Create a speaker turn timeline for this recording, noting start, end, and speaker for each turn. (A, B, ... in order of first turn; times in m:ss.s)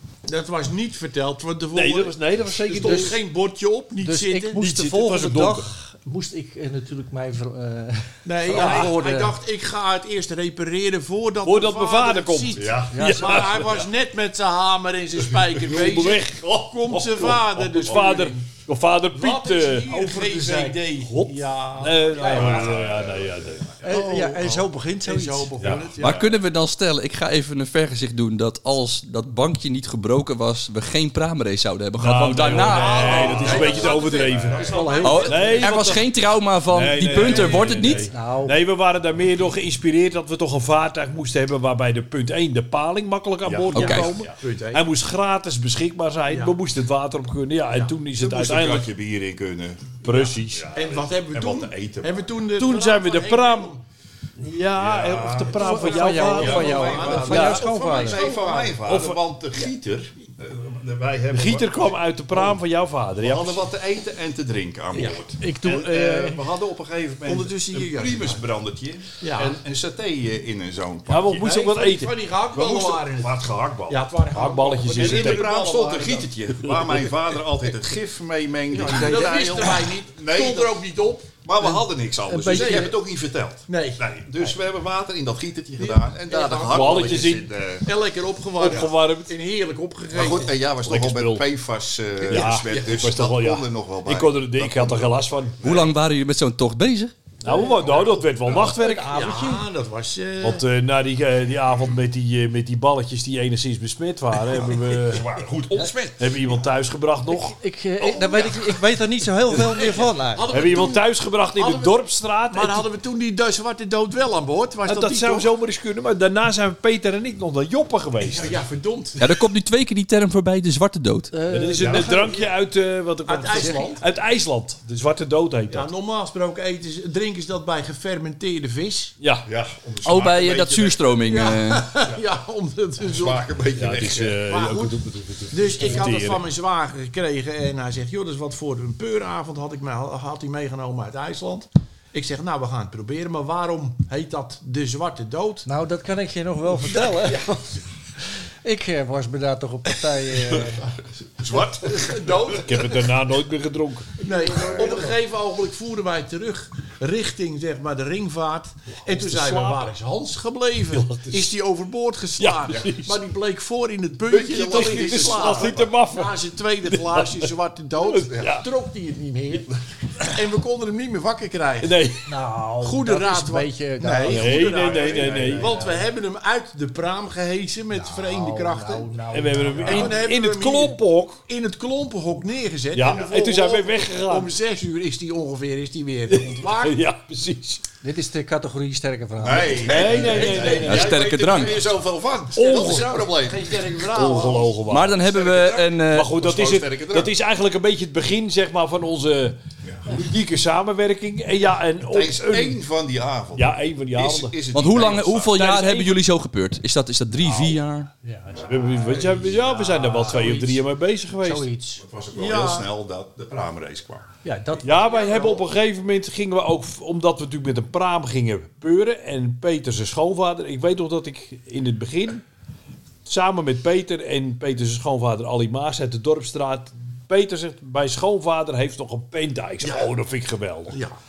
0:00.3-0:04.6 A
0:01.7-0:03.2 B
0:02.7-0:03.2 C
0:04.0-0:09.4 C
0:04.6-0:05.7 B
0:08.2-0:18.5 A
0:08.5-0:08.9 B
0:11.4-0:13.7 B
0:12.6-0:13.9 D
0:12.9-0:13.5 C
0:15.2-0:15.7 D
0:15.6-0:20.4 B
0:19.1-0:22.7 A
0:19.9-0:20.8 C
0:20.9-0:23.8 B
0:22.2-0:23.9 D
0:23.8-0:26.2 A
0:23.8-0:25.6 C
0:25.6-0:26.4 D
0:26.0-0:33.4 E
0:32.0-0:36.0 B
0:32.5-0:35.8 A
0:33.1-0:35.0 D
0:34.6-0:35.6 C
0:35.0-0:38.1 E
0:36.7-0:48.9 B
0:37.2-0:37.9 A
0:38.0-0:38.6 C
0:43.4-0:44.3 D
0:43.7-0:44.1 E
0:43.8-0:44.9 A
0:46.3-0:46.6 A
0:48.2-0:52.4 D
0:50.0-0:50.7 B
0:50.7-0:53.8 A
0:52.5-0:53.7 B
0:54.4-0:57.7 B
0:54.8-1:02.6 D
0:55.6-0:58.2 C
0:55.6-0:58.8 A
0:58.8-0:59.2 B
1:01.3-1:03.7 B
1:03.2-1:11.5 D
1:05.0-1:05.2 A
1:05.0-1:06.4 C
1:07.2-1:08.4 A
1:09.2-1:09.6 A
1:11.1-1:12.2 B
1:11.4-1:16.3 A
1:12.5-1:14.0 D
1:14.3-1:15.5 B
1:15.0-1:20.8 D
1:16.6-1:16.9 B
1:18.7-1:21.3 A
1:18.7-1:19.8 C
1:21.4-1:27.9 D
1:21.6-1:23.0 C
1:22.5-1:23.0 A
1:23.7-1:24.4 A
1:25.8-1:30.7 A
1:26.7-1:27.5 B
1:28.6-1:29.3 B
1:30.1-1:35.9 D
1:30.8-1:31.4 B
1:32.3-1:35.6 B
1:32.3-1:33.0 A
1:35.6-1:37.2 E
1:37.4-1:39.4 B
1:37.5-1:37.7 A
1:37.9-1:38.7 D
1:38.6-1:39.6 C
1:39.1-1:40.7 A
1:40.4-1:45.3 B
1:44.5-1:46.5 D
1:46.2-1:47.6 B
1:47.3-1:50.5 C
1:49.5-1:55.5 A
1:50.5-1:52.9 B
1:54.8-1:58.6 B
1:58.2-1:59.4 A
1:59.2-2:01.3 E
2:01.3-2:02.4 C
2:01.5-2:05.9 B
2:02.0-2:02.4 A
2:03.2-2:04.0 A
2:03.5-2:03.8 C
2:05.7-2:09.2 A
2:09.2-2:09.5 B
2:09.5-2:11.2 D
2:10.0-2:11.9 E
2:11.3-2:13.6 A
2:13.0-2:14.5 D
2:13.8-2:16.5 B
2:14.4-2:15.0 A
2:15.5-2:25.7 A
2:25.6-2:27.7 C
2:27.1-2:27.6 A
2:28.6-2:30.9 C
2:31.4-2:32.7 D
2:31.6-2:33.0 A
2:32.6-2:34.2 B
2:34.2-2:49.7 A
2:34.3-2:35.2 C
2:34.5-2:35.0 D
2:39.1-2:39.9 B
2:40.9-2:41.6 B
2:42.4-2:43.2 B
2:44.3-2:45.9 D
2:44.5-2:48.7 B
2:50.2-2:52.0 A
2:51.8-2:52.3 B
2:52.3-2:54.8 C
2:52.8-2:59.2 A
2:54.3-2:55.9 B
2:54.7-2:55.8 D
2:55.4-2:56.0 C
2:57.9-3:00.2 C
2:59.3-3:01.4 B
2:59.8-3:07.0 A
3:02.9-3:04.5 B
3:06.3-3:07.8 B
3:08.0-3:10.1 C
3:09.4-3:14.4 D
3:09.8-3:11.2 B
3:09.8-3:12.0 A
3:10.8-3:11.8 E
3:12.6-3:13.2 B
3:12.6-3:14.8 A
3:14.1-3:15.2 B
3:14.9-3:16.3 E
3:15.2-3:17.3 D
3:16.1-3:22.8 B
3:19.8-3:20.2 D
3:22.0-3:25.7 D
3:23.6-3:24.6 B
3:24.7-3:28.1 E
3:25.6-3:26.2 B
3:28.2-3:30.8 C
3:28.5-3:31.7 B
3:31.4-3:32.0 C
3:32.0-3:34.3 D
3:32.3-3:32.9 A
3:34.4-3:35.6 C
3:34.8-3:42.4 B
3:43.2-3:51.0 B
3:49.8-3:50.1 A
3:50.9-3:51.2 A